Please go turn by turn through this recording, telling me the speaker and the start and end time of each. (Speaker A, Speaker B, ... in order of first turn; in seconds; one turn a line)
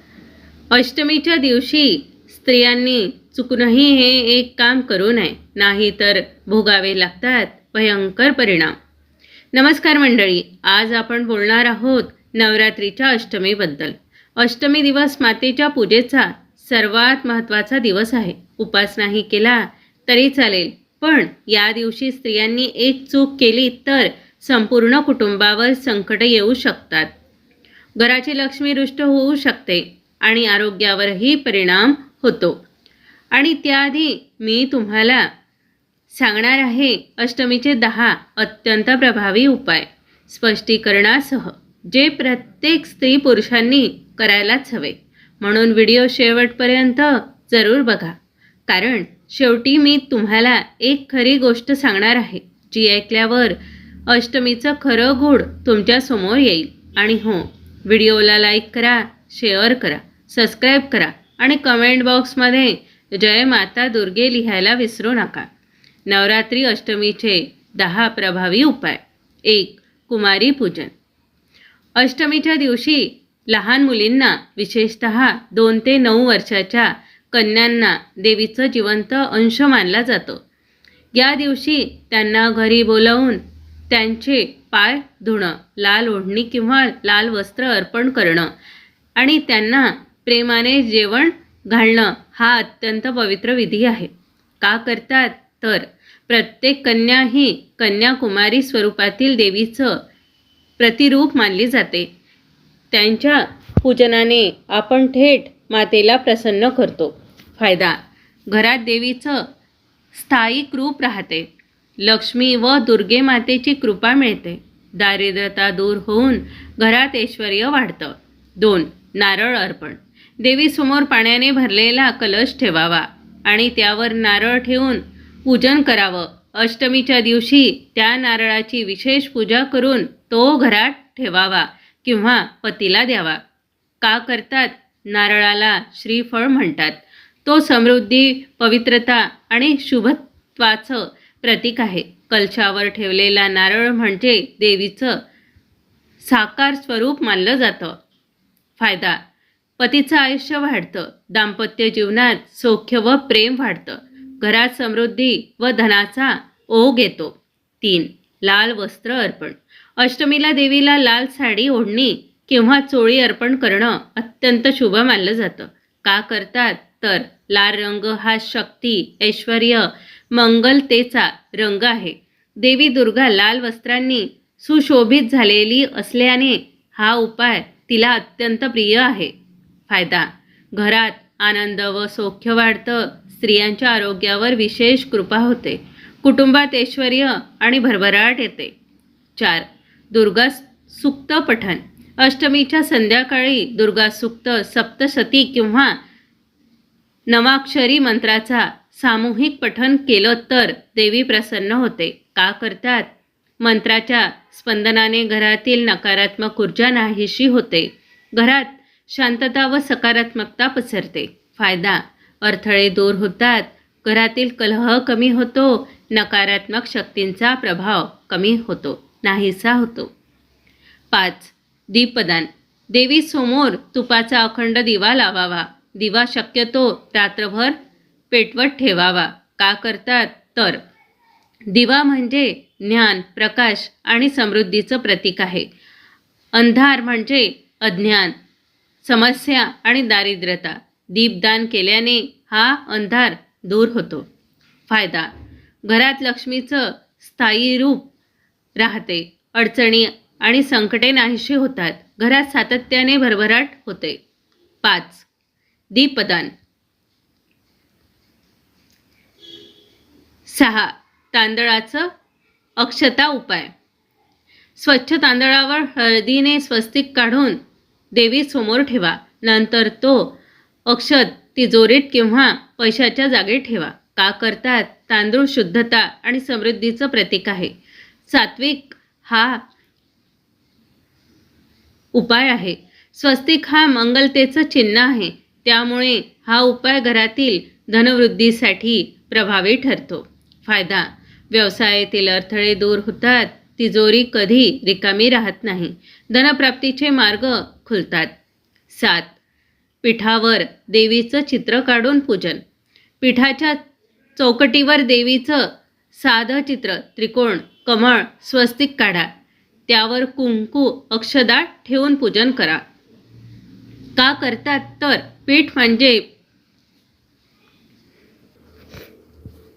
Speaker A: 0.7-8.8
Speaker A: 9.5-27.1
Speaker A: 28.0-32.6
Speaker A: 33.3-35.3
Speaker A: 36.1-48.2
Speaker A: 48.7-65.5
Speaker A: 66.1-70.9
Speaker A: 72.0-80.4
Speaker A: 81.1-88.5
Speaker A: 89.2-94.1
Speaker A: 94.6-100.0
Speaker A: 100.8-102.1
Speaker A: 102.9-108.0
Speaker A: 108.5-109.4
Speaker A: 110.1-111.5
Speaker A: 112.0-133.4
Speaker A: 134.0-145.2
Speaker A: 146.2-148.0
Speaker A: 148.8-149.2
Speaker A: 149.8-179.3
Speaker A: 179.9-188.7
Speaker A: 189.4-196.0
Speaker A: 197.3-203.1
Speaker A: 203.6-220.1
Speaker A: 221.1-227.8
Speaker A: 228.3-230.8
Speaker A: 231.7-235.7
Speaker A: 236.6-238.3
Speaker A: 239.0-244.3
Speaker A: 244.9-245.3
Speaker A: 245.9-248.1
Speaker A: 248.8-254.2
Speaker A: 254.8-255.3
Speaker A: 255.9-256.5
Speaker A: 260.5-262.1
Speaker A: 262.8-263.7
Speaker A: 264.8-267.6
Speaker A: 268.1-270.4
Speaker A: 270.9-277.7
Speaker A: 278.3-279.6
Speaker A: 282.1-298.3
Speaker A: 298.9-299.3
Speaker A: 300.0-302.6
Speaker A: 303.2-303.8
Speaker A: 304.4-309.3
Speaker A: 309.9-312.8
Speaker A: 314.2-316.2